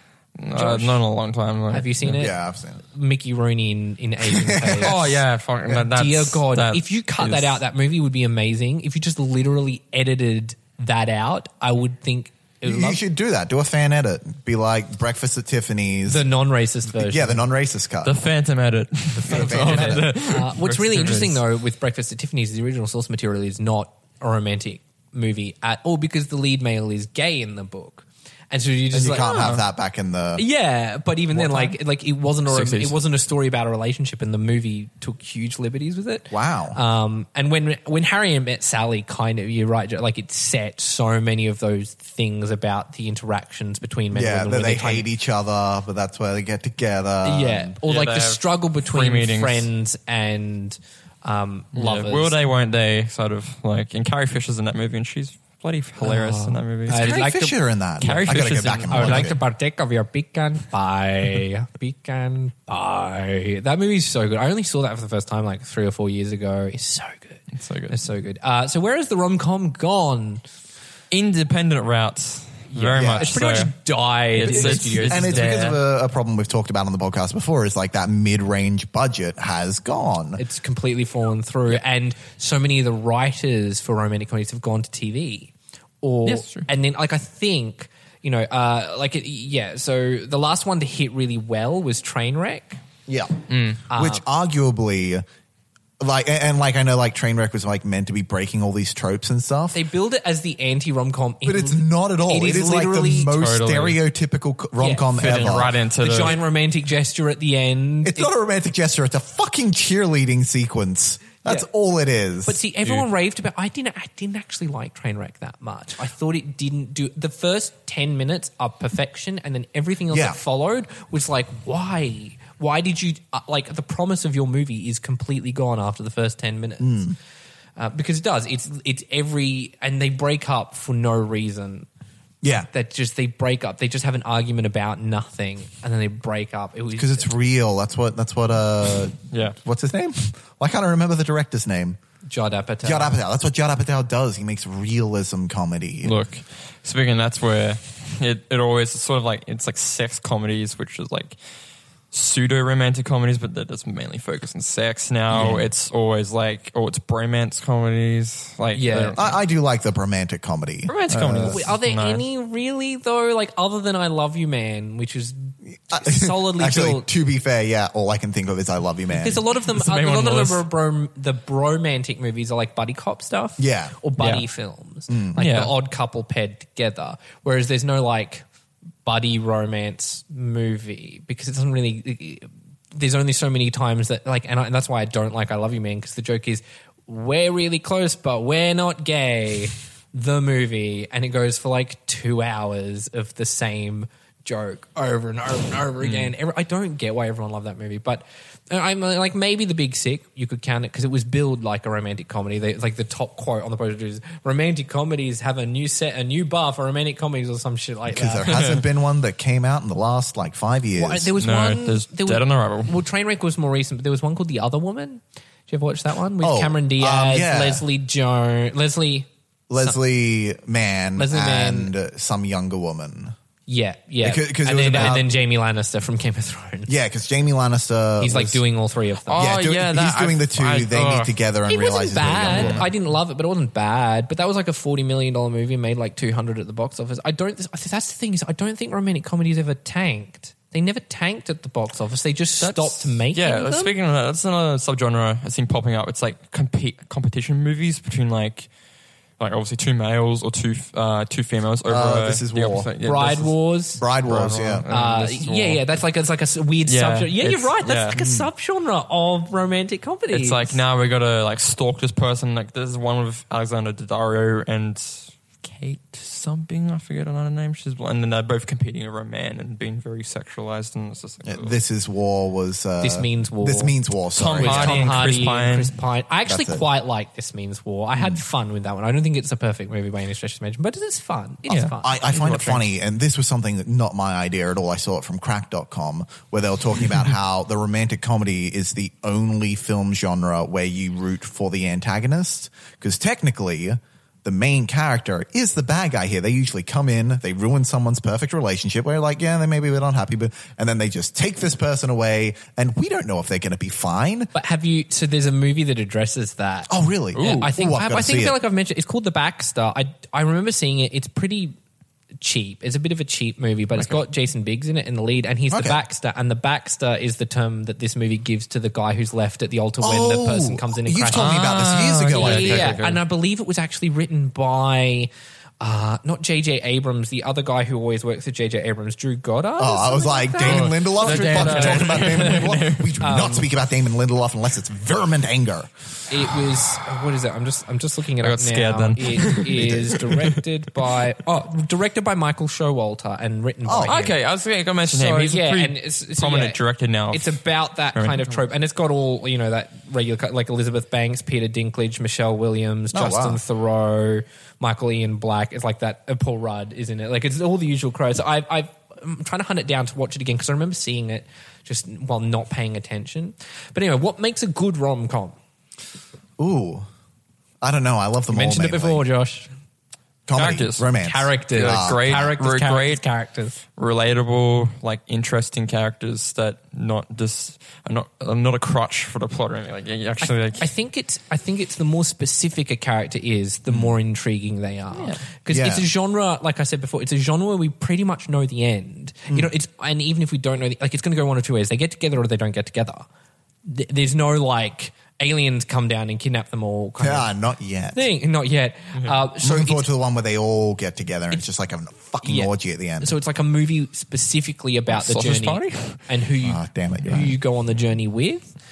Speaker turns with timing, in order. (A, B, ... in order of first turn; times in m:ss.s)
0:00.4-0:02.2 A
0:00.5-0:01.0 B
0:01.7-0:05.0 B
0:02.1-0:02.8 C
0:04.2-0:05.1 C
0:04.8-0:07.6 A
0:05.7-0:13.0 B
0:12.6-0:16.3 C
0:16.1-0:17.4 B
0:16.9-0:18.1 C
0:18.0-0:21.4 A
0:19.2-0:20.0 C
0:19.2-0:29.5 B
0:28.9-0:30.4 C
0:29.2-0:29.6 A
0:30.4-0:45.1 B
0:31.3-0:31.8 A
0:32.5-0:33.0 A
0:36.3-0:36.8 C
0:44.1-0:47.7 C
0:47.2-0:52.3 B
0:47.8-0:49.7 A
0:51.7-0:57.1 A
0:56.0-0:59.4 C
0:56.9-0:57.6 B
0:58.0-0:59.4 A
0:58.9-1:10.4 B
1:07.5-1:07.9 A
1:11.1-1:15.8 A
1:12.7-1:15.7 B
1:12.9-1:13.4 C
1:14.5-1:20.4 C
1:20.4-1:32.8 B
1:26.2-1:26.7 A
1:33.1-1:33.4 C
1:33.5-1:33.8 A
1:33.9-1:35.2 C
1:33.9-1:34.2 B
1:36.0-1:39.8 C
1:39.7-1:43.3 B
1:41.4-1:46.4 C
1:43.3-1:44.0 A
1:44.8-1:48.3 B
1:45.1-1:46.4 A
1:48.0-1:52.6 C
1:52.4-2:07.0 B
1:52.8-1:53.1 A
2:00.1-2:00.4 C
2:06.8-2:07.2 C
2:07.8-2:11.9 B
2:12.4-2:12.7 C
2:12.7-2:17.3 B
2:17.0-2:22.0 C
2:19.3-2:19.6 A
2:22.3-2:23.2 B
2:22.8-2:26.2 C
2:26.0-2:31.4 A
2:32.1-2:39.4 A
2:35.3-2:35.6 C
2:38.7-2:39.2 B
2:39.1-2:41.6 C
2:40.9-2:42.2 A
2:41.4-2:47.1 B
2:45.9-2:49.4 C
2:49.1-2:58.4 B
2:49.6-2:50.6 A
2:53.6-2:54.0 C
2:54.2-2:54.4 A
2:55.1-2:55.4 C
2:55.4-2:55.7 A
2:59.0-3:28.5 B
3:16.0-3:16.3 A
3:28.1-3:31.3 C
3:28.5-3:28.8 A
3:31.0-3:39.3 B
3:31.4-3:33.0 A
3:36.4-3:37.8 C
3:39.7-3:43.3 C
3:41.2-3:41.9 B
3:43.7-3:46.9 B
3:44.2-3:45.3 C
3:46.9-3:48.6 C
3:48.2-3:49.4 B
3:49.3-3:51.3 A
3:49.3-3:52.8 C
3:51.7-4:03.9 B
3:52.5-3:52.9 A
4:02.6-4:08.7 A
4:09.4-4:13.6 A
4:11.9-4:12.9 C
4:13.0-4:14.0 B
4:14.0-4:14.8 C
4:14.2-4:16.0 A
4:14.9-4:20.8 B
4:16.8-4:18.2 A
4:18.1-4:18.5 C
4:20.3-4:31.8 A
4:31.4-4:35.1 C
4:33.0-4:33.9 B
4:34.4-4:35.9 A
4:34.6-4:42.9 B
4:36.5-4:36.8 C
4:41.7-4:41.9 A
4:42.0-5:04.5 C
5:04.5-5:11.7 B
5:06.9-5:08.6 C
5:07.4-5:07.6 A
5:12.4-5:21.6 B
5:15.7-5:16.0 C
5:20.0-5:23.0 C
5:21.3-5:23.2 A
5:22.3-5:33.7 B
5:29.8-5:35.9 C
5:30.6-5:33.2 A
5:36.3-5:44.4 B
5:38.4-5:40.2 A
5:39.8-5:40.1 C
5:43.8-5:44.2 C
5:44.0-5:47.6 A
5:45.0-5:46.8 B
5:47.3-6:05.6 B
5:48.1-5:48.6 A
5:53.1-5:53.6 C
6:06.6-6:07.1 C
6:07.8-6:09.2 C
6:08.5-6:09.7 B
6:10.5-6:12.5 C
6:10.5-6:11.1 A
6:11.2-6:13.8 B
6:11.7-6:13.2 A
6:13.9-6:20.9 A
6:20.4-6:33.2 B
6:23.9-6:24.1 C
6:25.1-6:25.4 A
6:25.7-6:26.0 C
6:33.8-6:37.5 B
6:37.2-6:38.2 C
6:38.1-6:40.1 B
6:39.6-6:43.4 C
6:42.4-6:48.7 B
6:45.1-6:46.3 A
6:46.6-6:47.6 C